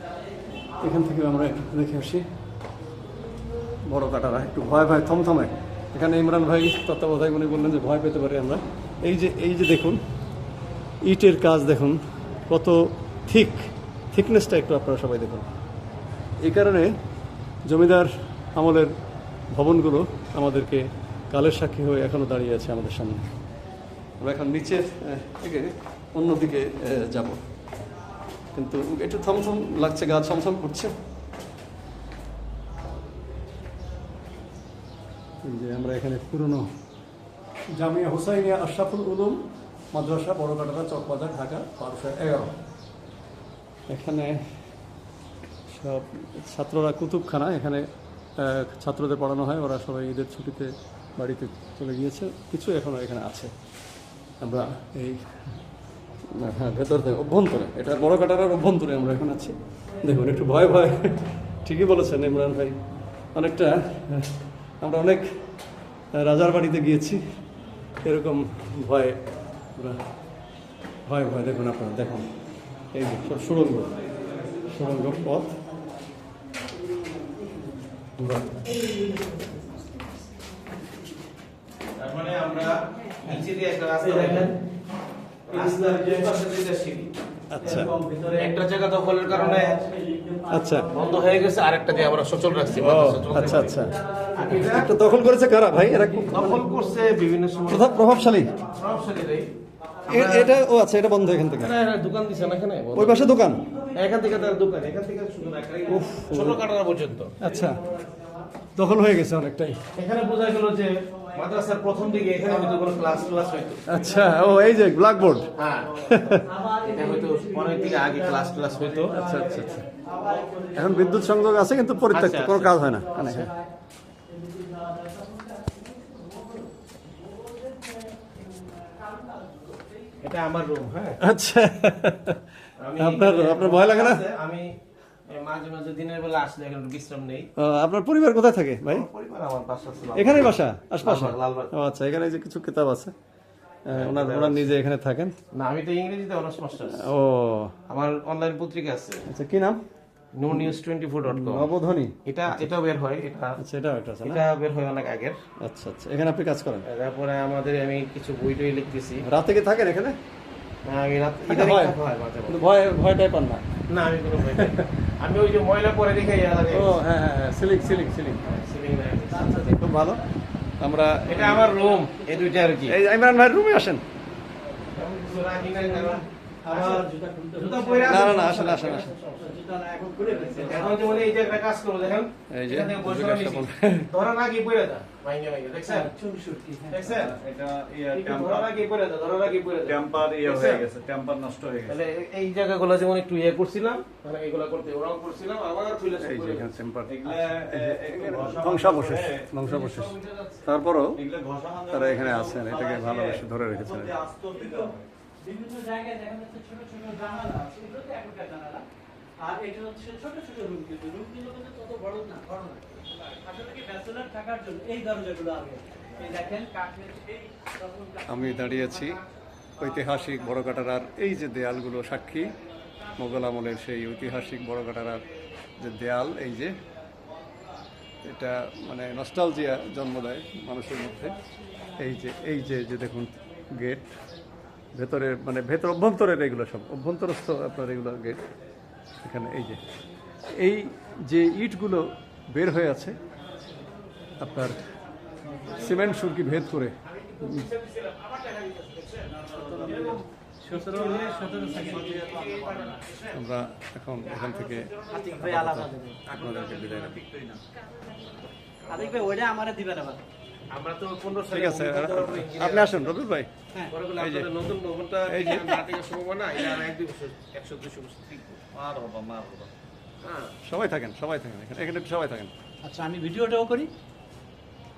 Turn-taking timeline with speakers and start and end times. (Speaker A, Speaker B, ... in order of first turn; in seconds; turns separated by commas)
Speaker A: 0.8-2.3, Speaker A: 3.9-10.0, Speaker A: 11.0-15.5, Speaker A: 16.4-16.9, Speaker A: 17.7-18.9, Speaker A: 19.5-23.2, Speaker A: 24.2-27.4, Speaker A: 28.5-30.9, Speaker A: 35.4-36.7, Speaker A: 37.8-39.4, Speaker A: 39.9-42.5, Speaker A: 43.9-44.4, Speaker A: 45.7-47.9, Speaker A: 48.4-53.5, Speaker A: 54.4-55.4, Speaker A: 56.3-62.8, Speaker A: 63.4-65.3, Speaker A: 66.2-67.2, Speaker A: 68.0-69.2, Speaker A: 71.1-72.3, Speaker A: 72.9-73.9, Speaker A: 74.6-75.6, Speaker A: 78.2-78.5, Speaker B: 78.9-79.5, Speaker C: 82.0-84.6, Speaker C: 85.5-87.1, Speaker B: 85.6-86.1, Speaker A: 87.5-88.0, Speaker C: 87.6-89.8, Speaker B: 87.8-88.5, Speaker B: 89.7-91.0, Speaker A: 90.5-90.9, Speaker C: 90.9-94.9, Speaker A: 92.8-96.6, Speaker C: 96.3-98.0, Speaker A: 97.7-98.6, Speaker C: 98.7-99.5, Speaker C: 100.1-100.5, Speaker A: 100.1-101.8, Speaker C: 101.6-103.3, Speaker A: 103.0-103.7, Speaker C: 103.9-107.4, Speaker A: 105.9-106.6, Speaker A: 107.4-107.8, Speaker A: 108.8-109.8, Speaker C: 110.0-113.8, Speaker A: 113.9-115.5, Speaker C: 115.6-116.0, Speaker A: 116.0-116.5, Speaker B: 116.5-118.2, Speaker C: 116.7-119.2, Speaker A: 119.1-119.9, Speaker B: 119.2-121.3, Speaker A: 120.7-123.5, Speaker C: 122.1-123.5, Speaker B: 124.3-126.7, Speaker B: 127.4-128.1, Speaker B: 128.9-129.6, Speaker C: 130.2-131.2, Speaker A: 131.2-134.2, Speaker C: 132.8-134.7, Speaker C: 135.3-137.5, Speaker A: 137.6-139.1, Speaker C: 138.9-141.7, Speaker A: 140.2-143.1, Speaker A: 143.9-145.3, Speaker C: 143.9-144.8, Speaker C: 145.5-147.1, Speaker A: 146.9-147.8, Speaker C: 147.9-149.2, Speaker A: 149.3-149.8, Speaker C: 150.4-151.7, Speaker A: 150.5-152.7, Speaker C: 152.3-153.6, Speaker A: 153.6-154.4, Speaker C: 154.2-155.4, Speaker A: 155.6-156.8, Speaker C: 156.8-159.2, Speaker A: 159.3-160.2, Speaker C: 160.9-162.6, Speaker A: 161.5-162.0, Speaker A: 162.5-163.7, Speaker C: 163.9-167.0, Speaker A: 164.5-164.9, Speaker A: 166.7-168.4, Speaker C: 168.5-169.9, Speaker A: 169.8-170.2, Speaker A: 170.8-171.7, Speaker C: 171.3-173.0, Speaker A: 172.8-174.0, Speaker C: 174.9-177.1, Speaker B: 176.0-178.4, Speaker C: 177.6-179.6, Speaker A: 178.0-179.1, Speaker B: 179.4-181.2, Speaker C: 180.5-186.1, Speaker A: 182.5-184.1, Speaker B: 185.9-187.1, Speaker C: 186.9-187.3, Speaker D: 187.1-188.7, Speaker C: 188.1-190.9, Speaker D: 189.8-192.0, Speaker C: 191.9-196.7, Speaker A: 196.2-200.1, Speaker D: 197.1-199.5, Speaker C: 199.6-200.7, Speaker A: 200.6-201.2, Speaker D: 201.2-205.1, Speaker A: 201.9-204.1, Speaker B: 204.6-208.9, Speaker B: 209.4-219.1, Speaker A: 218.2-219.2, Speaker A: 219.8-222.5, Speaker A: 223.2-225.2, Speaker A: 225.8-226.7, Speaker A: 228.2-231.4, Speaker A: 232.0-234.1, Speaker A: 234.9-238.4, Speaker A: 239.2-239.8, Speaker A: 240.6-243.2, Speaker A: 244.4-244.8, Speaker A: 245.7-247.7, Speaker C: 247.1-253.4, Speaker D: 249.4-250.1, Speaker B: 249.6-250.0, Speaker B: 250.6-252.2, Speaker D: 251.8-253.0, Speaker A: 253.3-257.2, Speaker C: 254.2-255.8, Speaker B: 255.1-256.2, Speaker D: 256.2-257.6, Speaker C: 258.9-259.3, Speaker B: 258.9-260.2, Speaker C: 260.7-263.2, Speaker A: 261.5-263.5, Speaker C: 263.9-268.6, Speaker A: 264.2-264.5, Speaker A: 265.3-265.7, Speaker D: 268.7-269.7, Speaker C: 270.2-270.6, Speaker A: 270.6-272.5, Speaker B: 272.8-273.9